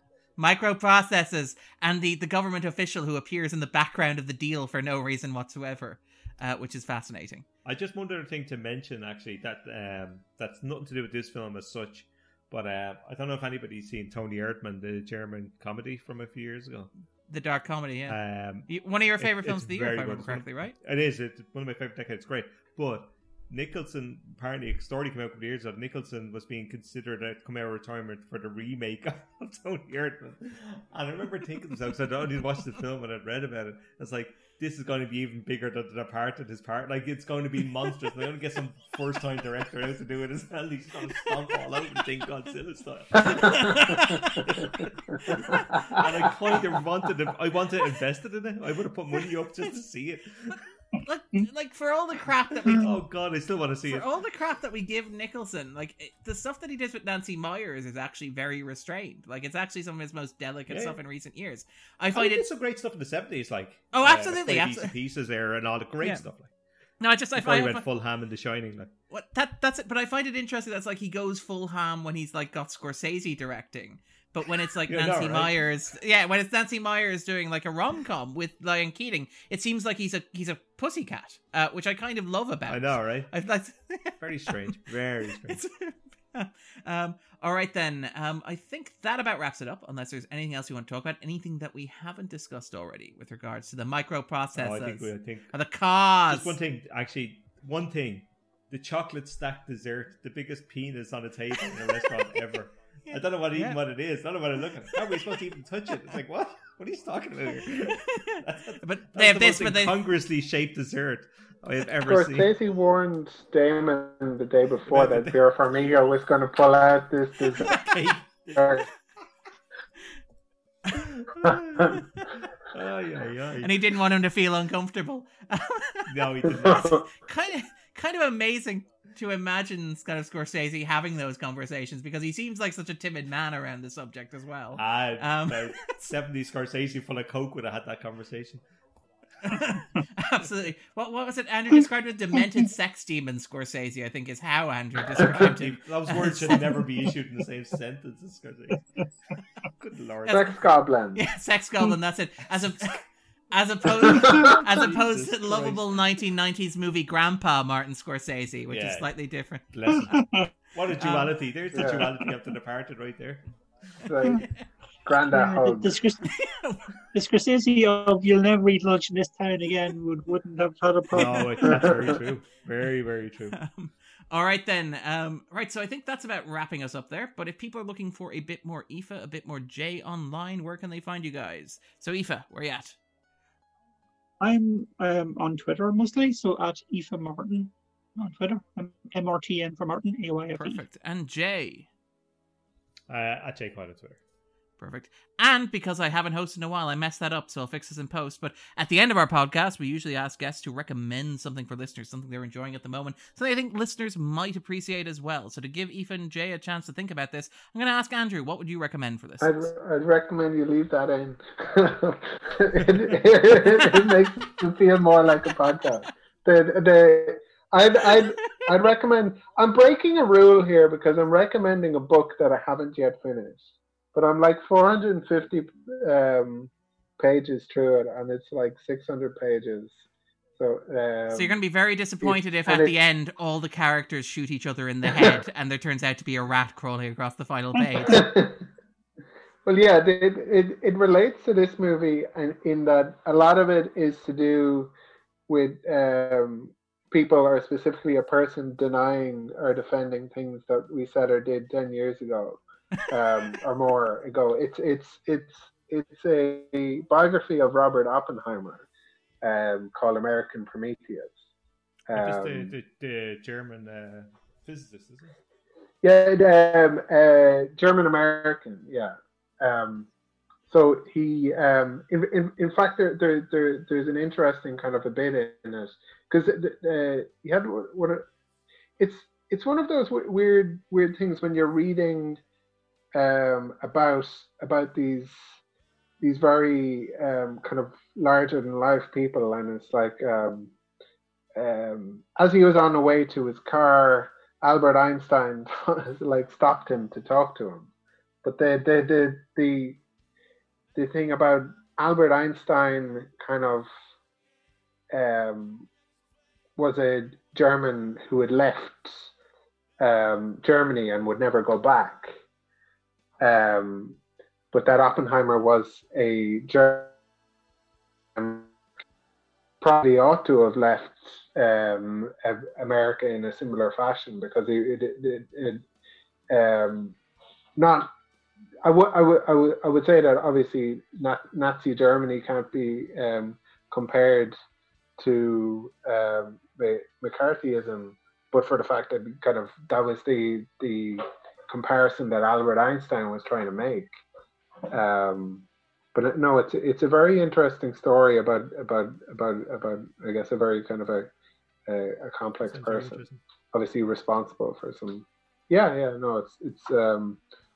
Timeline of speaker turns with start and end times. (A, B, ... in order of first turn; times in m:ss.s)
0:00.4-0:07.4 A
0:07.6-0:16.9 B
0:17.3-0:20.8 A
0:18.1-0:50.6 B
0:43.2-0:44.0 C
0:43.4-0:44.6 A
0:44.6-0:46.0 C
0:51.0-0:52.9 A
0:52.6-0:54.1 B
0:53.9-1:02.4 A
1:00.7-1:01.0 B
1:02.1-1:06.5 B
1:03.9-1:04.9 A
1:06.0-1:06.2 A
1:07.0-1:07.8 A
1:07.4-1:08.9 B
1:09.1-1:24.8 A
1:14.9-1:15.6 B
1:22.7-1:23.3 B
1:24.2-1:25.6 B
1:25.4-1:36.6 A
1:34.5-1:35.5 B
1:36.3-1:52.5 B
1:43.1-1:43.8 A
1:47.8-1:50.0 A
1:52.0-1:57.9 C
1:54.8-1:55.9 B
1:57.5-1:58.9 B
1:58.5-1:58.8 C
2:00.9-2:03.7 B
2:01.4-2:02.0 C
2:03.6-2:06.1 A
2:06.1-2:07.0 B
2:06.6-2:07.0 C
2:06.6-2:16.0 A
2:14.8-2:18.6 B
2:19.4-2:26.8 A
2:25.2-2:28.8 B
2:29.6-2:30.7 B
2:30.3-2:31.2 C
2:31.1-2:39.6 A
2:33.9-2:34.6 C
2:34.7-2:35.9 B
2:38.7-2:39.1 B
2:39.7-2:43.5 B
2:39.9-2:40.5 D
2:41.0-2:41.3 A
2:41.7-2:42.1 C
2:44.0-2:44.4 C
2:45.0-2:45.9 C
2:45.3-2:46.3 D
2:46.3-2:46.9 A
2:47.1-2:51.9 D
2:51.1-2:53.6 B
2:51.2-2:51.9 A
2:53.5-3:03.0 A
3:04.4-3:10.8 D
3:10.6-3:11.9 A
3:13.1-3:14.2 B
3:14.8-3:29.7 A
3:29.4-3:50.0 C
3:38.1-3:38.5 A
3:50.6-3:51.6 C
3:51.3-3:58.3 A
3:52.2-3:52.9 C
3:58.0-3:58.6 C
3:59.6-4:04.9 C
4:05.5-4:18.9 C
4:19.4-4:21.4 C
4:22.1-4:22.7 C
4:22.1-4:25.4 B
4:26.0-4:30.1 C
4:30.7-4:38.2 C
4:39.0-4:42.4 C
4:43.1-4:45.4 C
4:46.2-4:50.7 C
4:51.6-4:57.9 C
4:58.4-5:00.0 C
5:01.0-5:03.9 C
5:05.1-5:05.9 C
5:06.8-5:09.3 C
5:10.0-5:12.3 C
5:13.4-5:14.2 C
5:14.7-5:17.1 C
5:18.4-5:18.7 C
5:19.8-5:25.8 C
5:26.5-5:27.2 C
5:27.8-5:28.1 C
5:28.8-5:34.6 C
5:35.2-5:44.1 C
5:44.9-5:51.3 C
5:51.9-5:53.2 C
5:52.6-5:53.4 B
5:53.7-5:57.4 C